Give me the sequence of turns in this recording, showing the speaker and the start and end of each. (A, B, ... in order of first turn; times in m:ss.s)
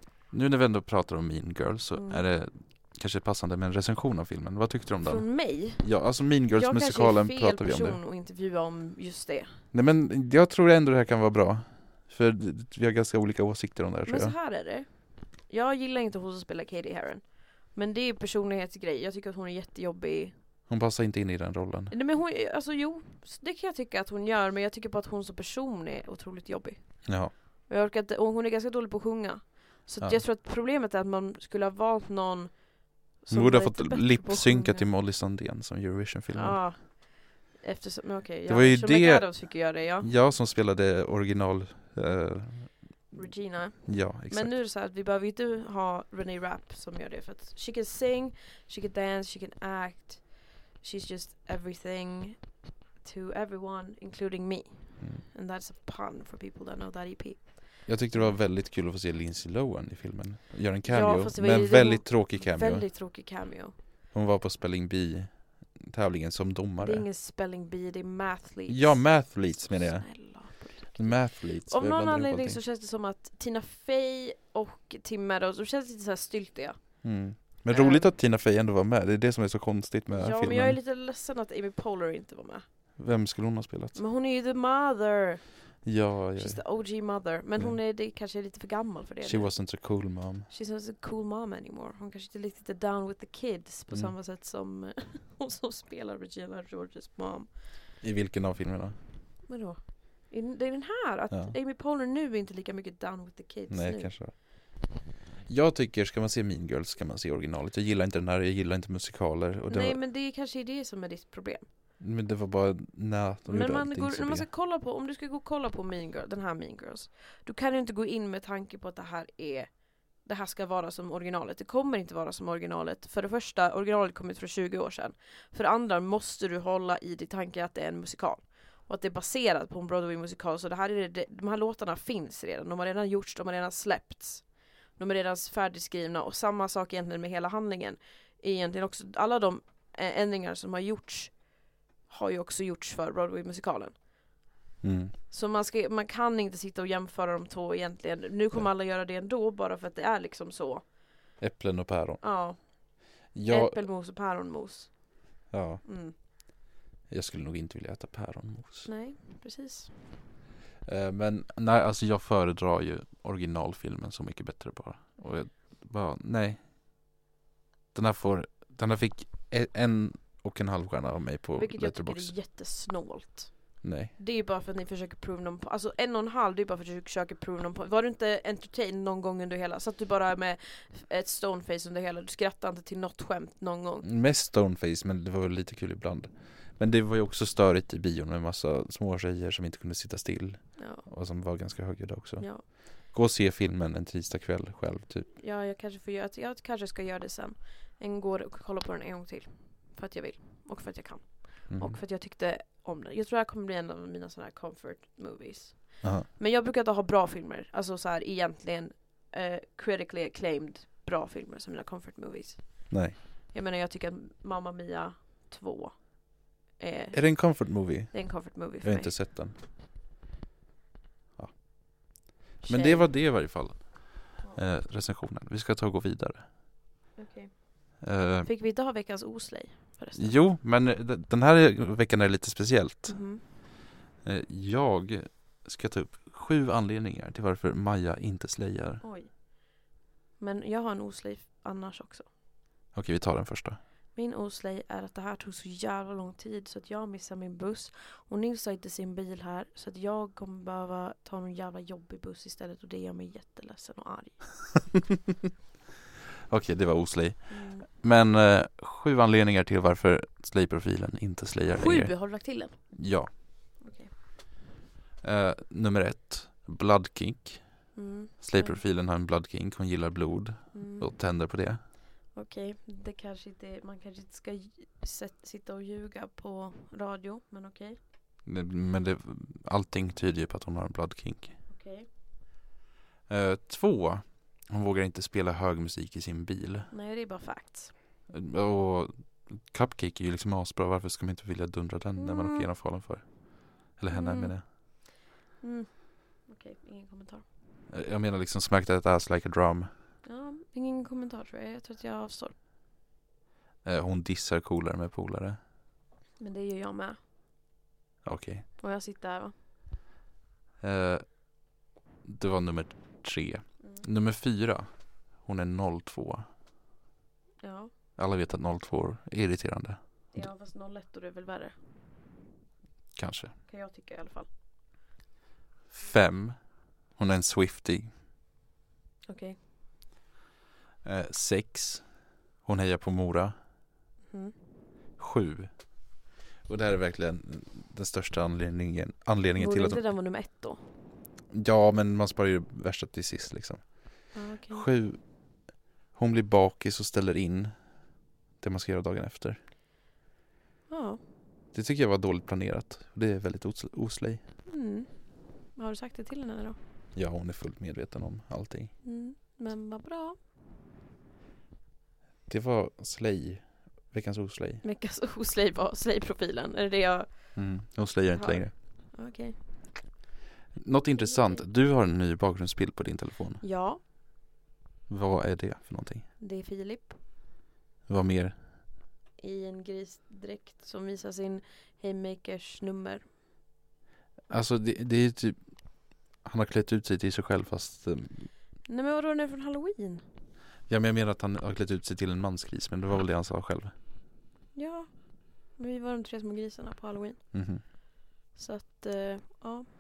0:00.3-0:08.0 A
0:01.9-0:02.3 B
0:05.0-0:09.6 B
0:09.7-0:14.4 A
0:14.0-0:20.4 B
0:20.7-0:21.9 A
0:21.9-0:34.9 B
0:27.0-0:27.3 A
0:33.3-0:36.6 A
0:36.3-0:40.1 B
0:38.5-0:43.1 A
0:43.1-0:58.4 B
0:43.8-0:44.6 A
0:55.0-0:55.2 A
0:57.8-1:02.9 A
1:00.8-1:03.8 B
1:04.1-1:07.1 A
1:06.8-1:18.1 B
1:08.7-1:12.6 A
1:17.0-1:20.8 A
1:20.1-1:22.7 B
1:23.0-1:24.0 A
1:23.9-1:37.8 B
1:25.8-1:26.9 A
1:29.2-1:30.5 A
1:38.0-1:39.0 A
1:39.4-1:44.4 B
1:41.3-1:41.5 A
1:43.7-1:44.4 A
1:45.4-1:50.0 A
1:49.7-1:51.7 B
1:52.0-1:54.5 A
1:53.4-2:24.2 B
2:24.8-2:25.1 A
2:25.3-2:31.1 B
2:31.4-2:32.2 A
2:32.2-2:36.2 B
2:33.3-2:33.8 A
2:35.5-2:35.8 A
2:37.1-2:38.9 A
2:38.8-2:40.1 B
2:40.8-2:46.7 A
2:47.9-2:52.4 A
2:51.5-3:04.1 B
2:53.8-2:54.1 A
3:04.0-3:15.3 A
3:10.8-3:11.0 B
3:12.4-3:12.7 B
3:15.4-3:39.2 B
3:21.7-3:22.0 A
3:26.0-3:26.3 A
3:32.9-3:33.2 A
3:37.1-3:39.6 A
3:41.4-3:46.5 A
3:42.6-3:43.3 B
3:47.2-3:50.4 B
3:48.0-3:48.5 A
3:50.1-3:53.3 A
3:53.0-3:53.5 B
3:54.2-3:59.0 A
3:59.0-4:02.3 B
4:02.9-4:03.8 A
4:04.1-4:14.7 B
4:16.5-4:23.4 A
4:17.5-4:17.9 B
4:21.8-4:23.0 B
4:23.8-4:24.1 B
4:25.2-4:31.8 A
4:27.9-4:28.8 B
4:30.7-4:31.1 B
4:32.3-4:38.1 B
4:38.4-4:41.6 A
4:41.7-4:42.1 B
4:43.3-4:46.9 A
4:46.9-4:48.0 B
4:48.3-4:54.6 A
4:52.2-4:52.7 B
4:54.1-4:57.4 B
4:57.9-4:59.9 A
5:00.2-5:02.5 B
5:03.8-5:05.6 A
5:06.4-5:07.2 B
5:08.2-5:08.6 A
5:08.8-5:09.5 B
5:10.8-5:11.6 A
5:12.2-5:16.4 A
5:13.8-5:14.1 B
5:17.6-5:17.9 B
5:18.1-5:20.5 A
5:20.3-5:21.7 B
5:23.2-5:23.5 A
5:23.7-5:24.5 B
5:25.9-5:28.1 A
5:29.3-5:29.6 B
5:31.0-5:33.5 A
5:34.3-5:34.5 B
5:35.2-5:36.1 A
5:36.6-5:40.0 A
5:39.6-5:40.8 B
5:41.5-5:47.9 A
5:44.3-5:44.9 B
5:48.6-5:49.6 A
5:50.9-5:51.2 B
5:51.7-5:54.4 A
5:54.6-5:56.8 B
5:57.1-5:58.9 A
5:59.0-6:00.4 B
6:02.5-6:04.8 A
6:04.8-6:07.8 B
6:07.5-6:08.7 A
6:08.3-6:10.0 B
6:10.7-6:13.6 A
6:11.1-6:11.6 B
6:13.6-6:14.0 B
6:15.1-6:16.3 A
6:16.4-6:17.4 B
6:18.0-6:18.7 A
6:19.4-6:23.2 B
6:24.5-6:28.5 A
6:28.8-6:30.2 B
6:30.9-6:33.9 A
6:34.7-6:37.5 B
6:37.5-6:37.8 A
6:38.5-6:39.8 B